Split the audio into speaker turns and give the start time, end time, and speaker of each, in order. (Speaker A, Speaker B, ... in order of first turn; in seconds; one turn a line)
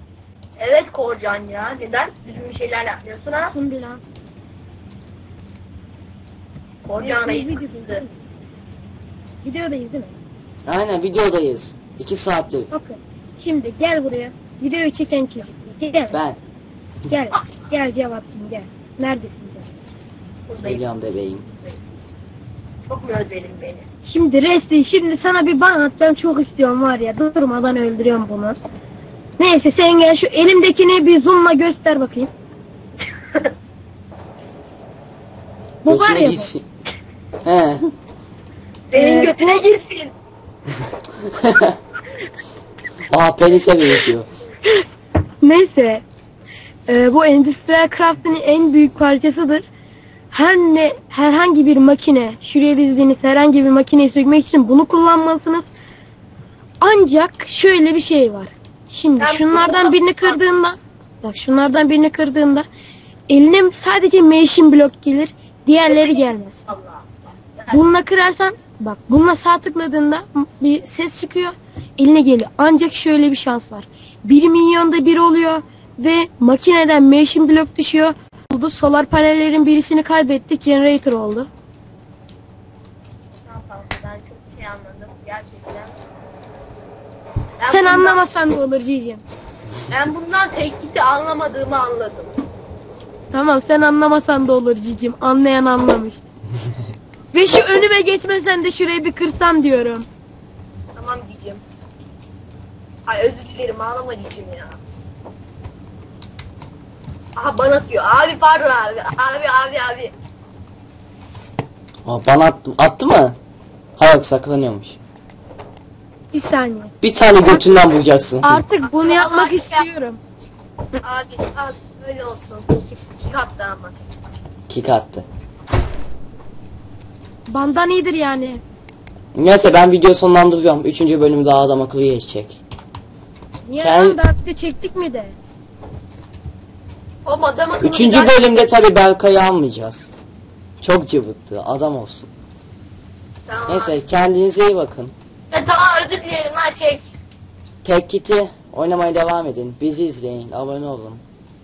Speaker A: 0.6-3.5
Speaker B: 3.5-4.0
Speaker A: 6.8-8.0
Speaker B: 7.0-8.1
Speaker B: 9.4-10.2
Speaker C: 10.6-12.7
Speaker B: 12.7-16.2
Speaker C: 16.1-16.4
Speaker B: 17.1-19.7
Speaker A: 20.5-20.8
Speaker C: 20.6-21.4
Speaker A: 22.9-23.9
Speaker B: 24.0-28.6
Speaker B: 29.4-32.3
Speaker B: 35.8-36.5
Speaker C: 35.9-36.6
Speaker C: 37.4-37.9
Speaker A: 38.9-40.1
Speaker B: 38.9-39.6
Speaker C: 41.4-41.8
Speaker C: 43.1-44.3
Speaker B: 45.4-46.0
Speaker B: 46.9-49.6
Speaker B: 50.3-55.6
Speaker B: 56.8-62.6
Speaker A: 59.2-60.4
Speaker B: 63.3-66.6
Speaker A: 65.8-67.8
Speaker B: 67.7-81.5
Speaker A: 83.5-86.0
Speaker A: 87.6-88.2
Speaker B: 87.7-89.2
Speaker A: 89.9-92.3
Speaker B: 93.3-96.2
Speaker B: 97.3-100.1
Speaker A: 101.0-101.6
Speaker A: 103.1-104.8
Speaker A: 107.4-110.1
Speaker C: 112.0-113.4
Speaker C: 114.0-115.0
Speaker B: 116.3-117.8
Speaker C: 117.0-118.6
Speaker B: 118.4-120.2
Speaker A: 118.8-119.9
Speaker A: 121.0-124.0
Speaker C: 124.7-125.2
Speaker B: 127.5-128.6
Speaker C: 129.3-132.6
Speaker B: 133.7-135.3
Speaker C: 133.8-134.2
Speaker A: 137.2-138.7
Speaker C: 137.8-140.1
Speaker C: 140.8-142.3
Speaker A: 143.5-144.0
Speaker C: 143.7-145.1
Speaker A: 145.5-147.0
Speaker C: 147.8-151.2